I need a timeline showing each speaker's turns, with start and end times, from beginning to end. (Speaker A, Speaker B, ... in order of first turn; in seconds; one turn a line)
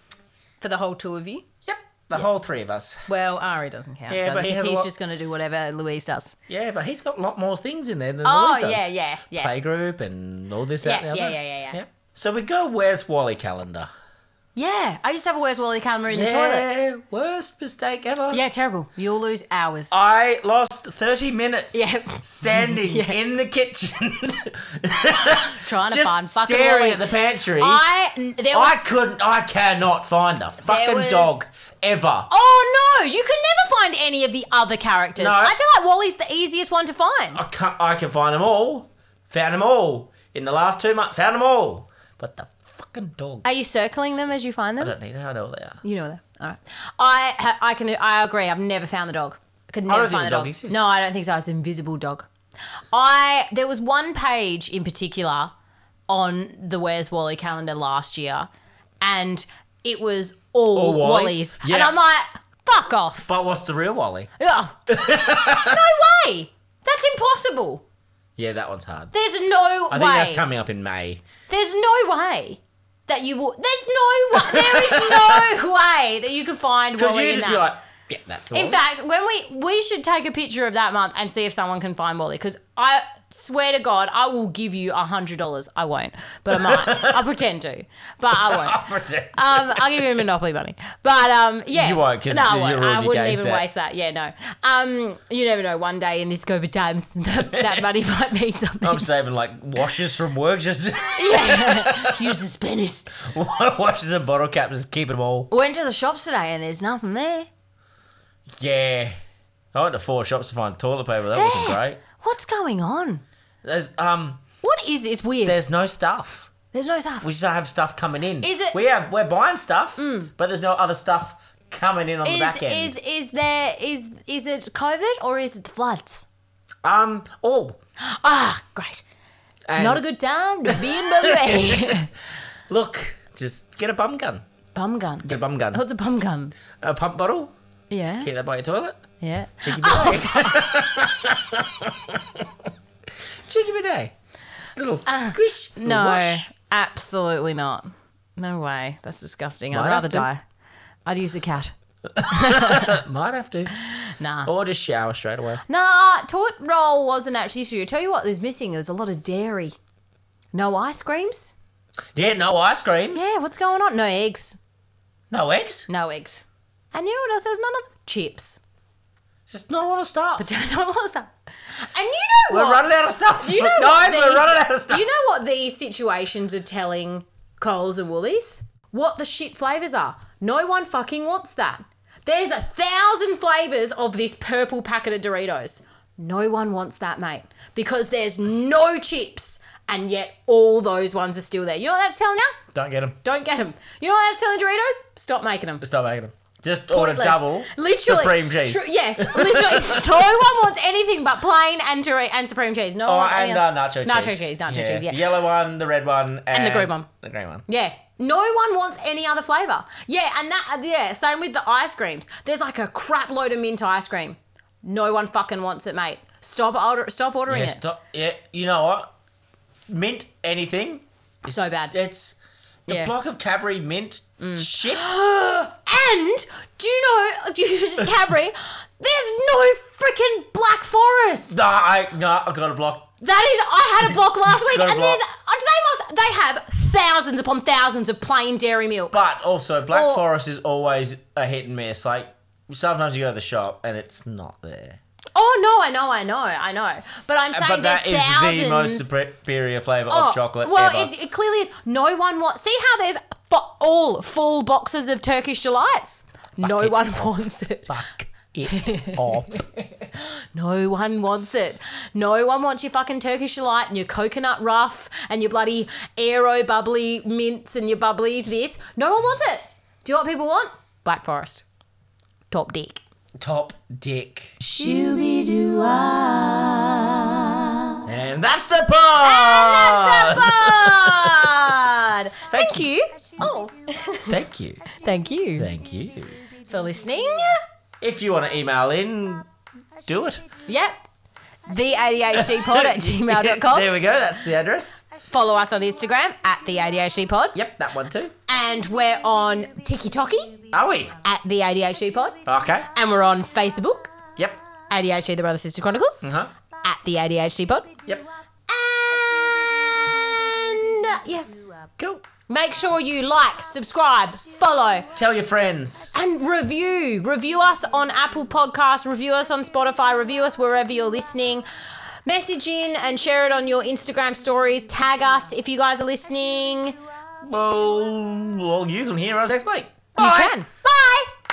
Speaker A: 0.6-1.4
Speaker B: 1.6-3.1
Speaker A: 3.1-6.4
Speaker B: 4.1-4.9
Speaker B: 6.5-13.9
Speaker A: 8.2-9.5
Speaker A: 10.8-11.8
Speaker A: 14.6-16.7
Speaker B: 16.1-18.4
Speaker A: 18.3-20.0
Speaker B: 19.9-27.8
Speaker A: 21.7-23.2
Speaker A: 25.3-27.0
Speaker A: 27.6-28.9
Speaker B: 28.5-32.3
Speaker A: 30.6-31.4
Speaker A: 32.3-37.4
Speaker B: 35.2-35.5
Speaker B: 37.3-43.5
Speaker A: 43.4-44.9
Speaker B: 44.8-45.8
Speaker A: 45.8-52.3
Speaker B: 49.9-50.8
Speaker A: 52.9-55.5
Speaker A: 56.1-58.5
Speaker A: 59.0-63.3
Speaker B: 60.7-62.0
Speaker B: 63.2-64.3
Speaker A: 64.4-67.8
Speaker B: 64.9-65.8
Speaker B: 68.4-69.1
Speaker A: 69.1-70.4
Speaker B: 69.9-71.2
Speaker A: 71.5-77.6
Speaker B: 74.3-75.5
Speaker B: 77.0-78.8
Speaker A: 78.5-88.8
Speaker B: 86.5-87.2
Speaker B: 88.3-90.0
Speaker A: 89.3-99.1
Speaker B: 91.7-93.6
Speaker B: 97.5-97.9
Speaker B: 98.8-102.3
Speaker A: 101.1-103.2
Speaker B: 103.2-105.5
Speaker A: 105.5-107.5
Speaker B: 108.5-109.2
Speaker B: 109.7-112.0
Speaker A: 111.3-113.2
Speaker B: 113.6-114.5
Speaker A: 114.6-115.6
Speaker B: 115.4-116.5
Speaker A: 116.7-117.2
Speaker B: 117.2-123.0
Speaker A: 118.4-118.8
Speaker A: 120.0-120.3
Speaker A: 122.2-126.3
Speaker B: 126.8-127.8
Speaker A: 128.0-129.0
Speaker B: 129.7-130.0
Speaker A: 129.8-132.1
Speaker B: 130.7-132.0
Speaker B: 132.7-134.4
Speaker A: 134.7-136.5
Speaker B: 135.2-135.8
Speaker B: 136.8-137.5
Speaker A: 137.9-138.3
Speaker B: 138.2-139.0
Speaker A: 139.2-140.7
Speaker B: 139.6-142.5
Speaker B: 143.5-146.5
Speaker A: 145.1-150.4
Speaker B: 149.7-150.3
Speaker A: 151.0-153.0
Speaker B: 152.1-153.8
Speaker A: 153.8-154.5
Speaker B: 154.4-155.6
Speaker A: 155.7-159.7
Speaker A: 160.5-161.6
Speaker B: 162.1-163.3
Speaker A: 163.1-164.6
Speaker B: 165.3-165.9
Speaker A: 165.9-168.6
Speaker B: 169.5-170.5
Speaker A: 170.4-172.9
Speaker B: 172.5-175.1
Speaker A: 173.4-192.6
Speaker B: 192.7-193.2
Speaker A: 193.2-195.8
Speaker B: 195.8-200.1
Speaker A: 196.9-205.2
Speaker B: 203.1-207.7
Speaker A: 206.5-207.1
Speaker A: 207.7-217.8
Speaker B: 217.5-219.1
Speaker B: 219.9-225.1
Speaker A: 221.5-221.9
Speaker A: 224.4-231.6
Speaker B: 231.5-233.1
Speaker A: 233.2-239.2
Speaker B: 234.5-235.2
Speaker B: 239.1-245.0
Speaker A: 239.9-240.2
Speaker A: 245.3-249.1
Speaker B: 247.5-251.1
Speaker A: 250.1-258.0
Speaker B: 256.6-259.6
Speaker A: 258.7-271.6
Speaker A: 272.5-273.0
Speaker B: 273.4-274.6
Speaker C: 274.6-278.0
Speaker B: 278.0-281.5
Speaker A: 279.2-284.4
Speaker B: 282.5-282.9
Speaker C: 283.2-283.6
Speaker B: 284.3-284.8
Speaker A: 284.9-285.7
Speaker B: 285.6-286.4
Speaker A: 286.6-287.6
Speaker B: 288.0-289.5
Speaker B: 290.0-290.5
Speaker A: 290.6-290.9
Speaker A: 291.6-293.9
Speaker B: 292.3-295.0
Speaker A: 295.3-297.6
Speaker B: 297.5-298.3
Speaker A: 298.5-300.6
Speaker B: 300.7-301.1
Speaker A: 301.1-304.1
Speaker B: 302.4-302.9
Speaker A: 304.9-306.3
Speaker B: 306.2-306.5
Speaker A: 306.8-307.9
Speaker A: 308.7-311.5
Speaker C: 309.2-311.0
Speaker B: 312.0-312.2
Speaker A: 312.5-315.1
Speaker B: 315.1-316.1
Speaker A: 316.1-321.6
Speaker A: 322.2-327.0
Speaker B: 327.4-330.5
Speaker A: 330.1-331.1
Speaker C: 330.9-331.2